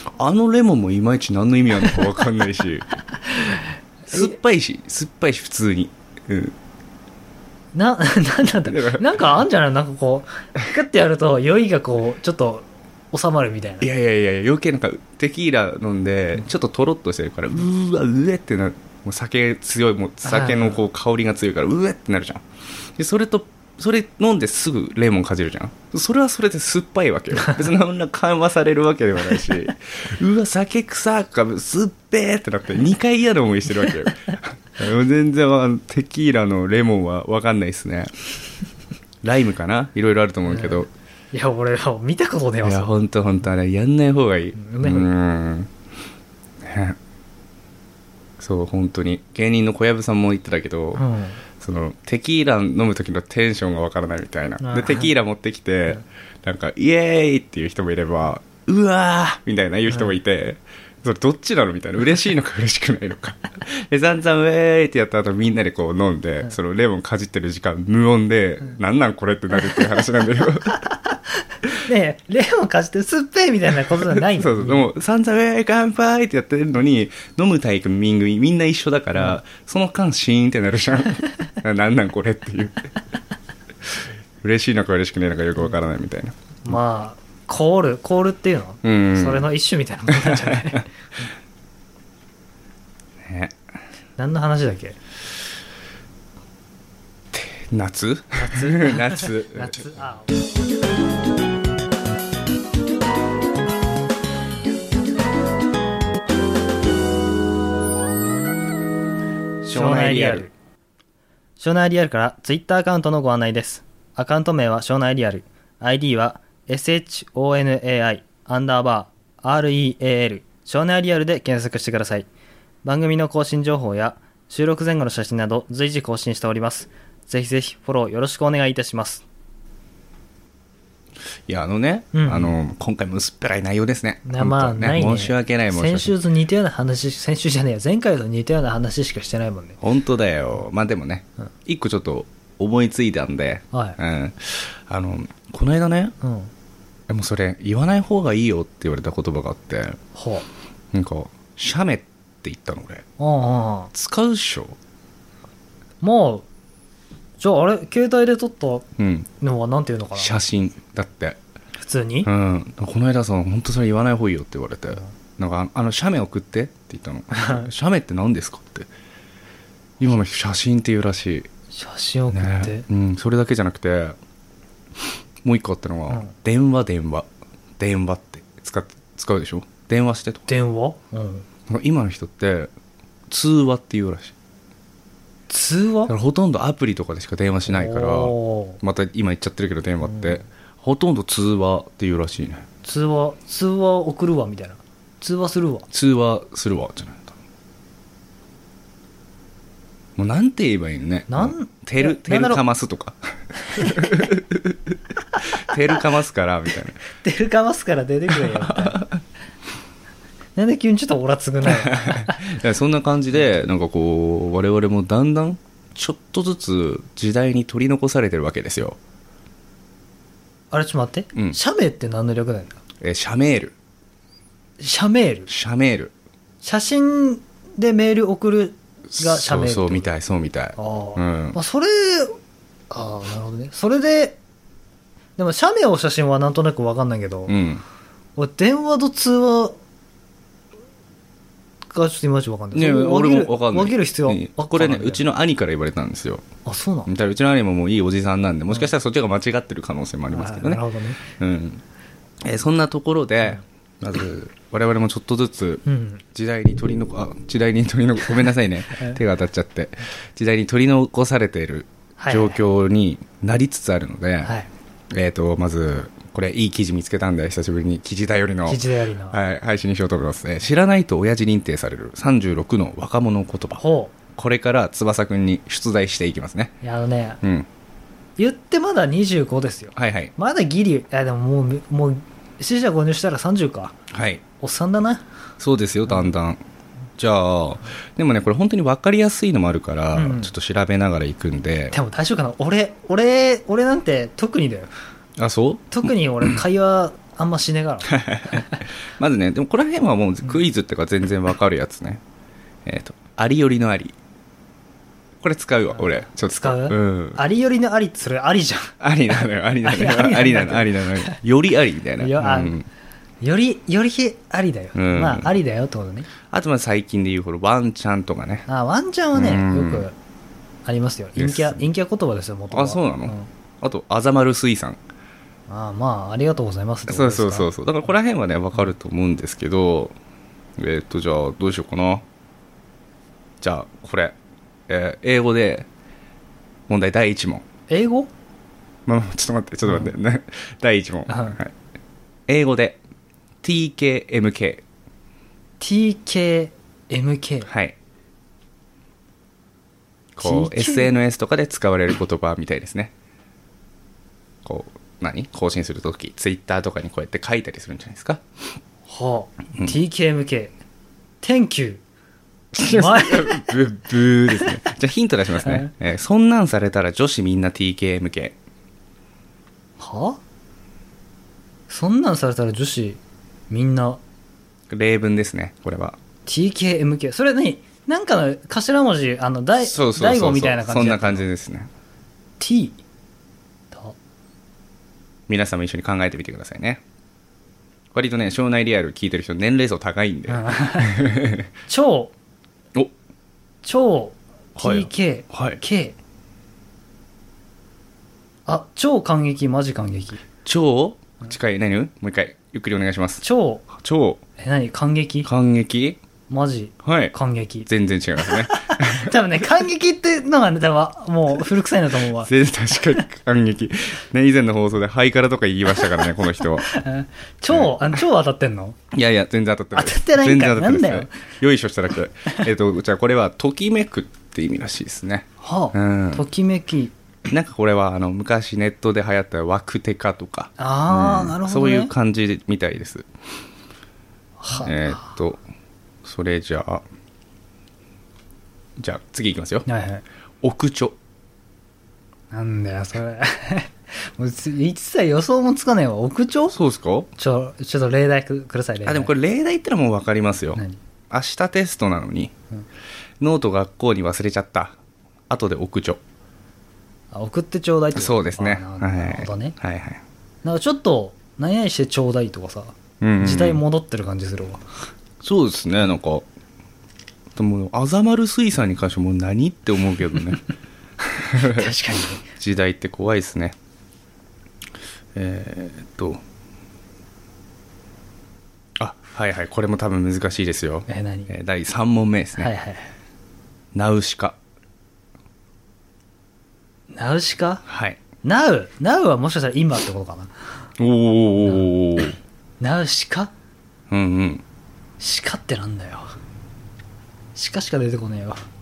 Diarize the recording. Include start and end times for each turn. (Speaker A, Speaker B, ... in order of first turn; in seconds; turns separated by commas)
Speaker A: 0.2-2.9, Speaker B: 4.1-4.3, Speaker A: 4.1-6.5, Speaker B: 7.7-13.9, Speaker A: 8.7-9.1, Speaker A: 13.8-22.4, Speaker B: 20.2-20.8, Speaker A: 23.0-38.1, Speaker A: 39.2-40.9, Speaker B: 40.5-42.9, Speaker A: 42.6-45.7, Speaker B: 44.6-45.1, Speaker A: 46.6-47.0, Speaker A: 48.4-51.0, Speaker B: 51.0-51.4, Speaker A: 51.6-70.9, Speaker B: 54.6-55.1, Speaker B: 71.7-74.9, Speaker A: 74.1-82.9, Speaker A: 84.4-86.3, Speaker B: 86.7-90.9, Speaker A: 88.8-89.5, Speaker A: 90.2-90.8, Speaker A: 93.2-93.6, Speaker B: 94.2-95.0, Speaker A: 97.3-99.9, Speaker B: 98.4-100.3, Speaker A: 109.6-110.5, Speaker B: 109.7-110.5, Speaker B: 111.6-122.3, Speaker B: 122.8-129.2, Speaker A: 131.5-136.1, Speaker B: 132.1-132.5, Speaker B: 134.2-139.8, Speaker A: 139.8-146.2, Speaker B: 143.7-144.0, Speaker B: 146.2-146.5, Speaker A: 147.1-150.0, Speaker B: 150.1-150.5, Speaker A: 150.9-153.1, Speaker B: 153.2-153.9, Speaker A: 153.9-154.8, Speaker B: 156.0-156.5, Speaker B: 157.4-158.9, Speaker A: 159.0-159.3, Speaker B: 159.4-160.3, Speaker A: 160.2-161.4, Speaker B: 161.8-162.3, Speaker A: 162.2-168.9, Speaker B: 167.4-167.7, Speaker A: 170.0-171.5, Speaker B: 171.7-172.8, Speaker A: 172.3-174.2, Speaker A: 175.4-177.3, Speaker A: 177.8-180.5, Speaker B: 180.5-181.5, Speaker A: 181.7-182.7, Speaker A: 183.3-184.3, Speaker B: 185.5-186.1, Speaker A: 186.1-192.7, Speaker B: 187.7-188.8, Speaker B: 190.1-190.4, Speaker B: 192.8-195.9, Speaker A: 195.9-197.3, Speaker A: 200.2-207.1, Speaker B: 201.3-202.6, Speaker B: 203.8-204.3, Speaker B: 207.2-209.0, Speaker A: 208.4-209.2, Speaker B: 210.6-212.4, Speaker A: 211.7-219.0, Speaker B: 220.7-222.8, Speaker A: 223.0-223.8, Speaker B: 224.8-225.5, Speaker A: 225.5-226.1, Speaker B: 226.6-230.1, Speaker A: 229.1-231.6, Speaker B: 230.8-232.4, Speaker B: 232.9-234.4, Speaker B: 235.4-237.6, Speaker A: 237.5-237.8, Speaker B: 238.4-239.8, Speaker B: 241.9-245.2, Speaker A: 242.7-246.4, Speaker B: 246.7-247.1, Speaker A: 247.1-251.8, Speaker B: 250.3-251.2, Speaker A: 252.4-264.5, Speaker B: 255.9-256.2, Speaker B: 262.2-262.6, Speaker B: 264.4-264.7, Speaker A: 265.1-276.7, Speaker B: 268.7-269.4, Speaker B: 273.8-274.1, Speaker B: 276.8-277.4, Speaker A: 277.4-277.7, Speaker B: 278.4-284.0, Speaker A: 280.0-280.3, Speaker A: 284.1-284.4, Speaker B: 284.6-285.3, Speaker A: 285.6-286.6, Speaker A: 287.2-292.0, Speaker B: 290.1-290.5, Speaker B: 291.9-294.9, Speaker A: 295.4-296.6, Speaker B: 295.9-298.7, Speaker A: 298.1-302.2, Speaker A: 302.9-304.2, Speaker A: 305.4-307.4, Speaker B: 306.0-309.0, Speaker A: 309.0-312.9, Speaker B: 309.8-311.4, Speaker B: 312.2-312.8, Speaker B: 313.4-316.3, Speaker A: 314.9-315.5, Speaker A: 316.5-318.7, Speaker B: 318.7-320.1, Speaker A: 319.4-320.1, Speaker B: 320.9-323.5, Speaker A: 321.4-321.9, Speaker A: 322.7-325.0, Speaker B: 325.7-327.7, Speaker A: 327.1-330.2, Speaker A: 330.8-332.3, Speaker A: 333.6-334.4, Speaker A: 334.9-335.9, Speaker A: 336.9-337.6, Speaker B: 337.9-338.3, Speaker A: 339.1-341.7, Speaker B: 339.9-340.1, Speaker B: 341.3-341.6, Speaker A: 342.5-343.0, Speaker A: 343.6-344.8, Speaker B: 345.8-347.7, Speaker A: 347.7-348.0, Speaker A: 350.4-353.1, Speaker B: 350.4-351.1, Speaker A: 354.6-358.4, Speaker B: 359.1-360.7, Speaker B: 361.4-362.0, Speaker A: 362.7-368.6, Speaker B: 362.8-363.8, Speaker B: 365.6-365.9, Speaker B: 370.0-370.4, Speaker B: 371.9-374.2, Speaker A: 374.9-376.2, Speaker B: 376.5-381.4, Speaker A: 379.8-381.9, Speaker B: 382.6-383.0, Speaker B: 383.9-384.2, Speaker A: 385.5-387.0, Speaker A: 388.1-391.7, Speaker B: 390.5-391.2, Speaker B: 391.9-392.3, Speaker B: 393.8-396.2, Speaker A: 394.8-395.8, Speaker B: 398.7-400.4, Speaker A: 400.6-404.4, Speaker B: 403.4-403.9, Speaker B: 404.6-405.5, Speaker A: 405.4-406.2, Speaker B: 406.5-412.5, Speaker A: 407.0-407.4, Speaker A: 407.9-409.4, Speaker A: 412.4-416.9, Speaker B: 416.9-419.0, Speaker A: 417.7-418.2, Speaker A: 419.1-426.5, Speaker B: 419.9-421.3, Speaker B: 425.6-427.1, Speaker A: 427.5-433.3, Speaker B: 430.8-432.1, Speaker B: 434.6-435.2, Speaker A: 434.8-435.6, Speaker A: 436.2-437.0, Speaker A: 439.0-439.9, Speaker B: 439.9-440.2, Speaker A: 440.6-441.1, Speaker B: 442.5-446.8, Speaker A: 446.7-447.3, Speaker B: 447.4-449.3, Speaker A: 449.0-452.5, Speaker A: 453.4-455.0, Speaker A: 455.5-456.2, Speaker B: 457.3-459.8, Speaker A: 458.1-460.2, Speaker B: 460.6-464.9, Speaker A: 463.2-463.8, Speaker A: 465.4-466.5, Speaker A: 467.6-470.7, Speaker A: 471.3-471.9, Speaker B: 471.5-472.4, Speaker A: 472.5-473.8, Speaker A: 475.4-476.4, Speaker A: 479.0-482.7, Speaker B: 481.1-481.5, Speaker B: 482.6-483.1, Speaker A: 483.9-484.6, Speaker B: 487.1-487.8, Speaker A: 487.9-488.2, Speaker B: 488.4-490.5, Speaker A: 491.0-492.4, Speaker B: 492.8-493.5, Speaker A: 494.1-494.6, Speaker B: 495.2-496.3, Speaker B: 497.6-498.6